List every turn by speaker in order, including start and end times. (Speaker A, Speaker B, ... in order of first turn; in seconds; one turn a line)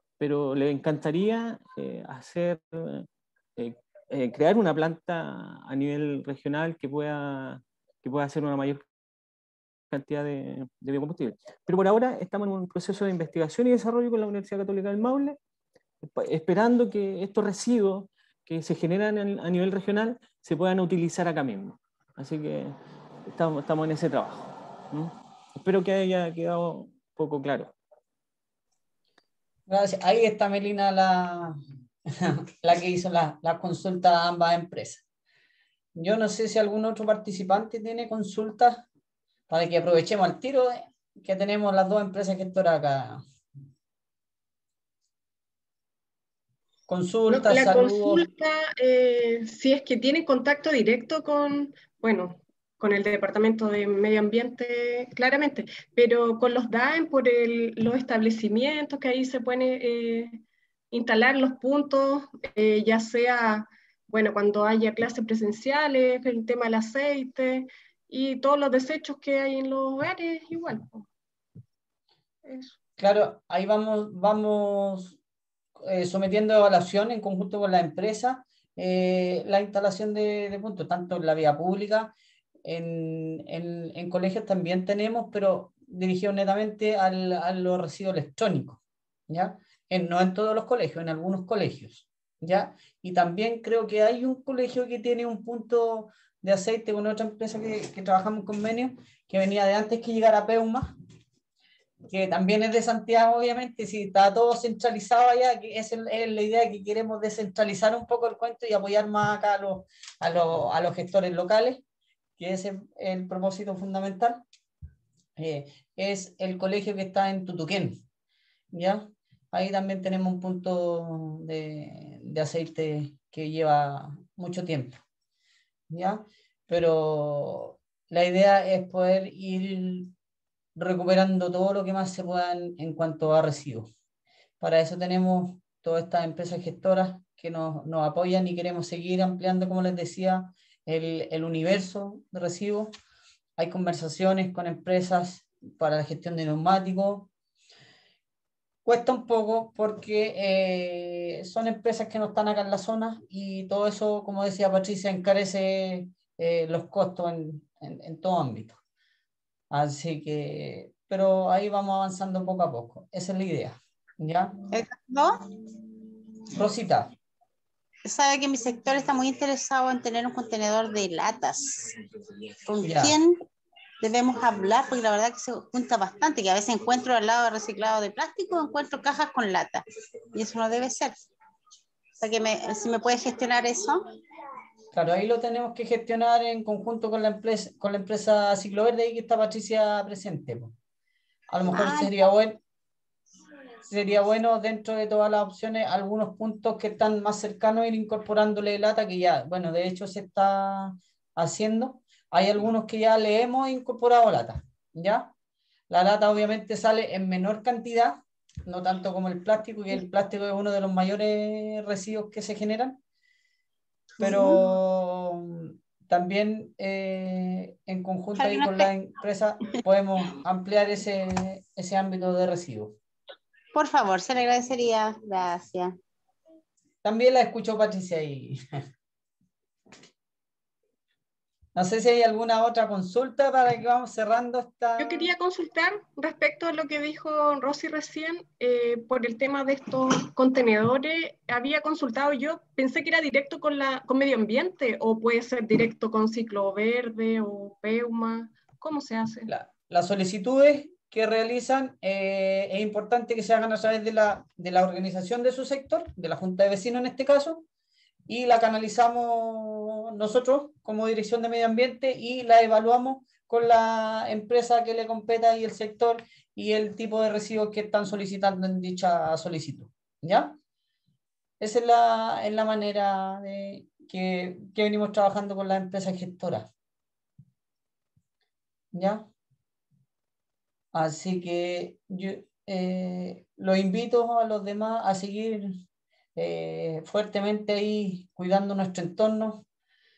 Speaker A: 0.2-8.8
Speaker A: 9.9-15.4
Speaker A: 16.0-27.7
Speaker B: 29.7-31.6
Speaker B: 32.2-35.0
Speaker B: 36.0-38.9
Speaker B: 39.5-43.2
Speaker B: 46.9-48.3
Speaker C: 47.3-71.0
Speaker C: 72.5-72.8
Speaker B: 73.0-75.2
Speaker B: 75.8-82.1
Speaker B: 82.7-100.9
Speaker B: 102.1-111.8
Speaker B: 112.4-114.4
Speaker B: 115.4-118.0
Speaker B: 118.7-125.0
Speaker B: 125.9-130.1
Speaker B: 130.8-133.9
Speaker B: 134.6-142.9
Speaker B: 143.6-147.3
Speaker B: 148.8-158.8
Speaker B: 159.7-164.5
Speaker D: 164.7-165.4
Speaker B: 166.5-167.1
Speaker D: 168.1-172.0
Speaker D: 172.7-173.4
Speaker B: 172.8-173.2
Speaker D: 174.0-181.2
Speaker D: 182.2-184.1
Speaker B: 184.9-190.7
Speaker B: 191.5-192.6
Speaker D: 191.7-192.1
Speaker B: 193.9-205.3
Speaker B: 205.9-213.0
Speaker B: 214.2-223.0
Speaker D: 214.2-214.5
Speaker D: 218.4-218.9
Speaker D: 223.7-226.0
Speaker B: 227.0-228.6
Speaker B: 231.8-235.3
Speaker C: 235.0-249.5
Speaker B: 249.5-257.6
Speaker B: 258.3-270.6
Speaker B: 271.6-276.7
Speaker B: 278.9-279.3
Speaker B: 280.9-285.8
Speaker B: 286.4-289.6